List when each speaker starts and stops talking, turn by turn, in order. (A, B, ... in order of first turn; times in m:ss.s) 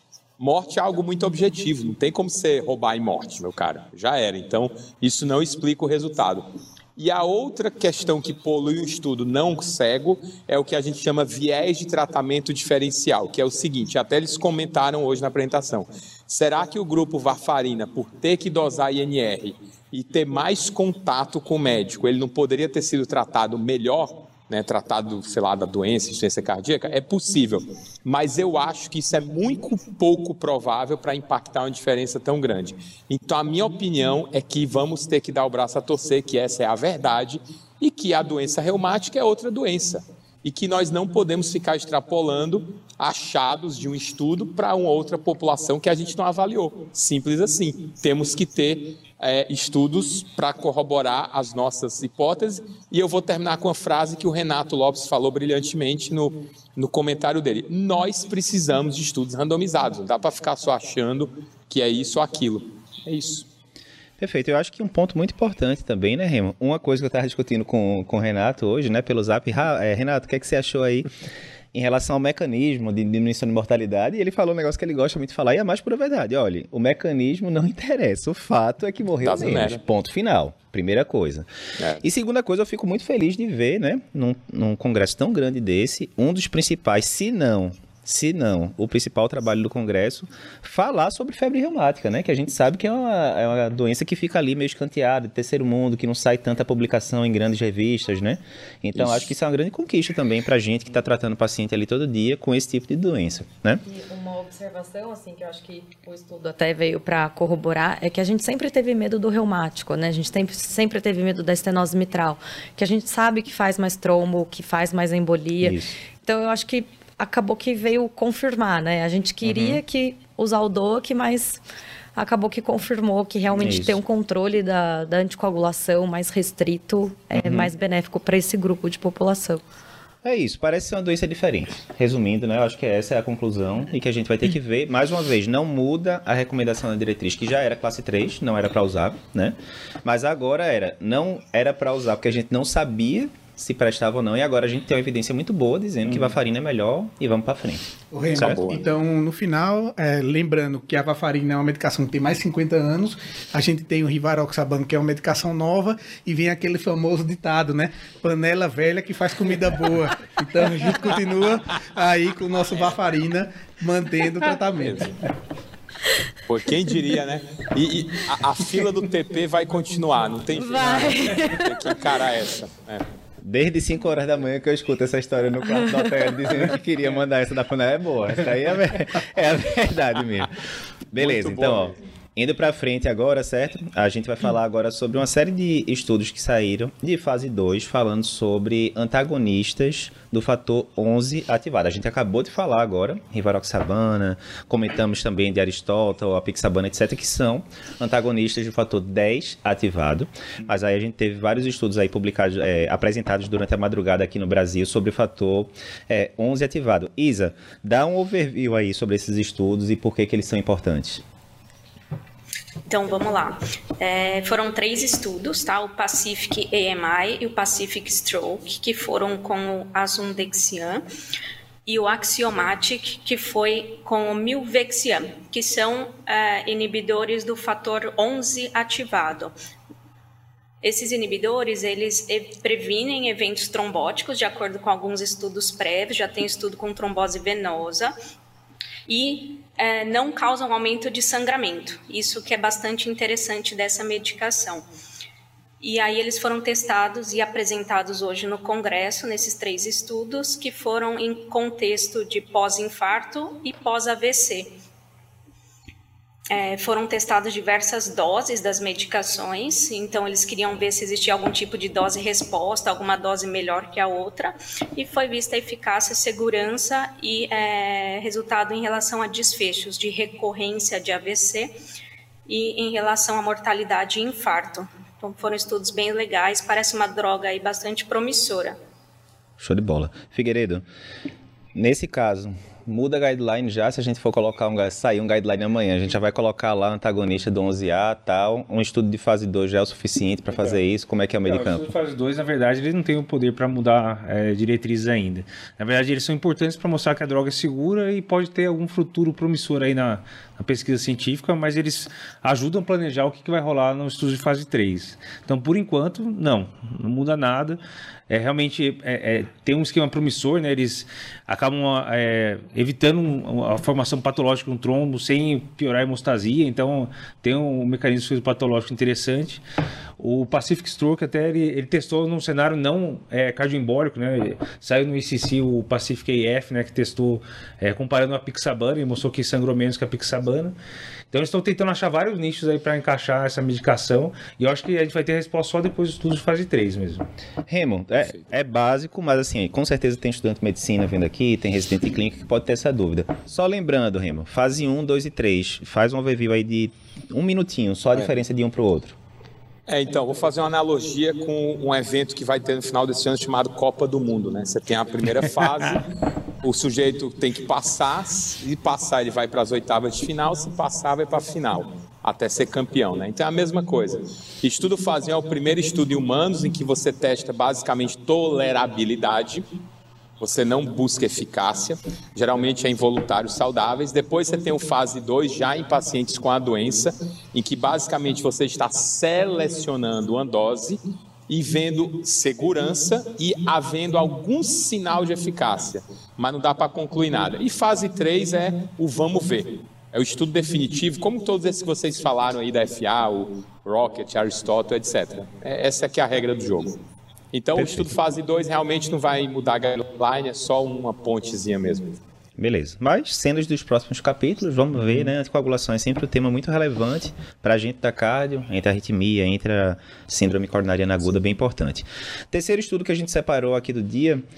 0:00.4-1:03.5 A
1:04.2-1:11.1 B
1:11.7-1:21.5 B
1:19.2-1:19.8 A
1:22.0-1:43.8 B
1:43.8-2:01.6 C
1:55.6-1:56.0 B
1:59.4-1:59.8 B
2:02.2-2:09.6 C
2:03.6-2:04.0 B
2:07.3-2:07.7 B
2:10.2-2:28.7 B
2:26.1-2:26.3 D
2:28.1-2:45.1 E
2:28.4-2:28.8 A
2:44.8-2:45.1 A
2:46.4-2:53.1 A
2:50.6-2:51.9 C
2:53.4-3:00.5 B
2:55.8-2:56.0 C
3:01.1-3:31.2 B
3:01.3-3:01.8 A
3:32.9-3:41.1 F
3:41.9-3:49.6 F
3:50.8-3:58.2 F
3:59.1-4:04.9 F
4:05.8-4:14.8 F
4:16.5-4:31.8 F
4:32.5-4:38.8 F
4:39.6-4:40.8 B
4:41.8-4:51.9 B
4:51.5-5:19.6 D
5:20.2-5:30.8 D
5:31.3-5:37.3 D
5:37.7-5:49.2 B
5:49.9-5:56.1 A
5:56.6-6:09.7 A
6:10.4-6:37.0 A
6:37.5-6:42.2 A
6:42.6-6:54.4 B